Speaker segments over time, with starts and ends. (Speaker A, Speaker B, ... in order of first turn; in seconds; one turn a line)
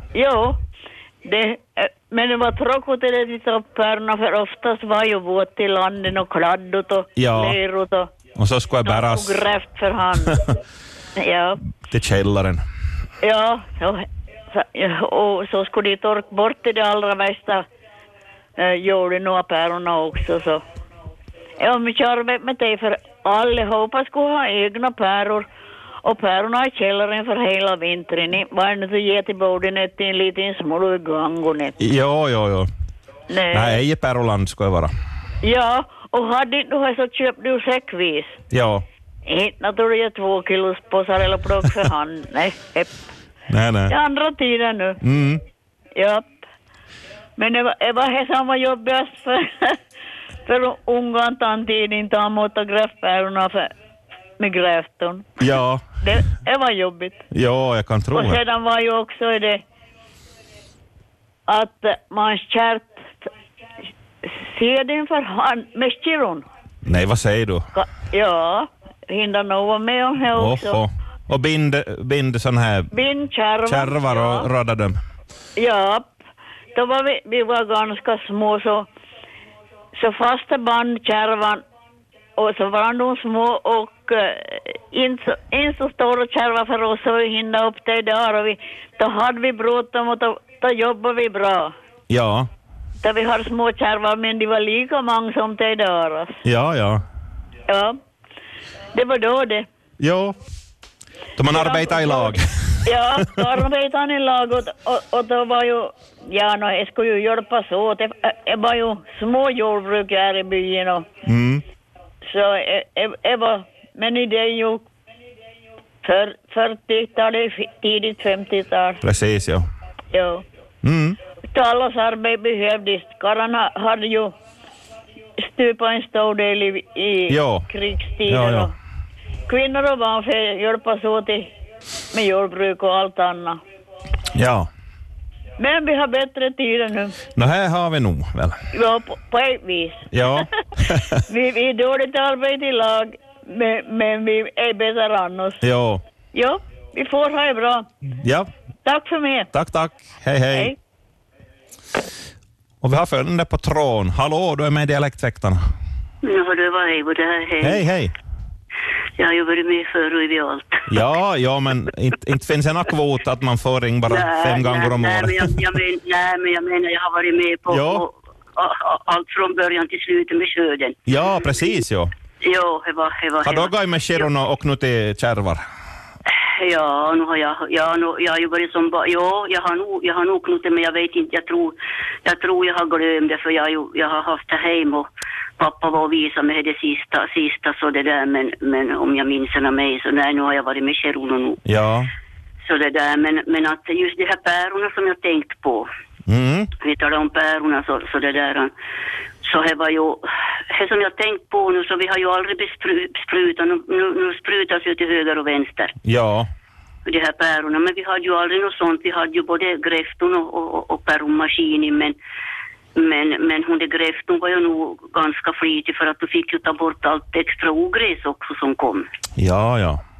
Speaker A: 0.1-0.6
Speaker A: 1.2-8.1
Speaker B: 7.2-7.6
Speaker B: 8.3-9.4
Speaker A: 8.8-10.4
Speaker A: 11.2-11.6
Speaker B: 11.9-12.6
Speaker A: 13.2-17.6
Speaker A: 18.6-20.6
Speaker A: 21.6-25.4
Speaker A: 26.0-31.8
Speaker B: 31.8-32.7
Speaker A: 33.3-33.8
Speaker B: 33.5-34.9
Speaker A: 35.4-38.4
Speaker B: 38.5-38.8
Speaker A: 39.2-43.0
Speaker B: 43.5-43.9
Speaker A: 43.9-45.0
Speaker B: 45.0-45.4
Speaker A: 46.0-46.3
Speaker A: 47.4-49.8
Speaker A: 50.5-53.7
Speaker A: 54.4-55.4
Speaker B: 55.4-55.8
Speaker A: 56.0-57.2
Speaker B: 57.3-58.4
Speaker A: 58.1-59.6
Speaker A: 61.5-63.3
Speaker A: 64.2-66.4
Speaker B: 66.8-67.7
Speaker A: 67.7-70.8
Speaker B: 70.3-72.9
Speaker A: 72.9-74.5
Speaker B: 73.7-75.0
Speaker A: 75.6-76.1
Speaker A: 76.7-78.9
Speaker A: 79.9-81.6
Speaker A: 82.4-91.7
Speaker B: 92.1-92.5
Speaker A: 93.0-96.4
Speaker B: 96.4-97.0
Speaker A: 97.7-98.0
Speaker A: 98.9-99.7
Speaker B: 100.0-100.3
Speaker B: 101.4-103.5
Speaker A: 101.5-111.1
Speaker B: 111.2-111.6
Speaker A: 112.2-114.8
Speaker A: 116.0-119.0
Speaker B: 119.0-119.7
Speaker A: 120.1-120.4
Speaker B: 120.8-121.2
Speaker A: 121.5-124.3
Speaker A: 125.4-128.7
Speaker B: 127.3-127.7
Speaker B: 128.3-128.7
Speaker A: 129.5-131.5
Speaker A: 132.1-133.6
Speaker B: 134.3-134.7
Speaker A: 135.6-137.2
Speaker B: 137.3-138.6
Speaker A: 138.7-140.4
Speaker B: 140.1-141.2
Speaker A: 141.2-145.6
Speaker B: 145.6-146.0
Speaker A: 146.3-147.9
Speaker B: 148.1-148.5
Speaker A: 148.8-149.5
Speaker B: 149.5-150.7
Speaker B: 152.8-155.6
Speaker C: 156.2-157.8
Speaker B: 157.6-158.1
Speaker C: 159.2-160.9
Speaker B: 160.9-165.6
Speaker C: 164.1-171.0
Speaker B: 167.7-168.0
Speaker B: 171.1-172.1
Speaker C: 172.4-174.3
Speaker B: 173.4-175.6
Speaker C: 176.3-185.1
Speaker C: 185.6-191.6
Speaker B: 191.7-192.1
Speaker C: 192.6-195.9
Speaker B: 196.2-196.7
Speaker C: 196.8-198.7
Speaker C: 199.4-205.9
Speaker B: 206.0-206.5
Speaker C: 207.0-212.2
Speaker C: 212.9-219.1
Speaker B: 219.4-220.0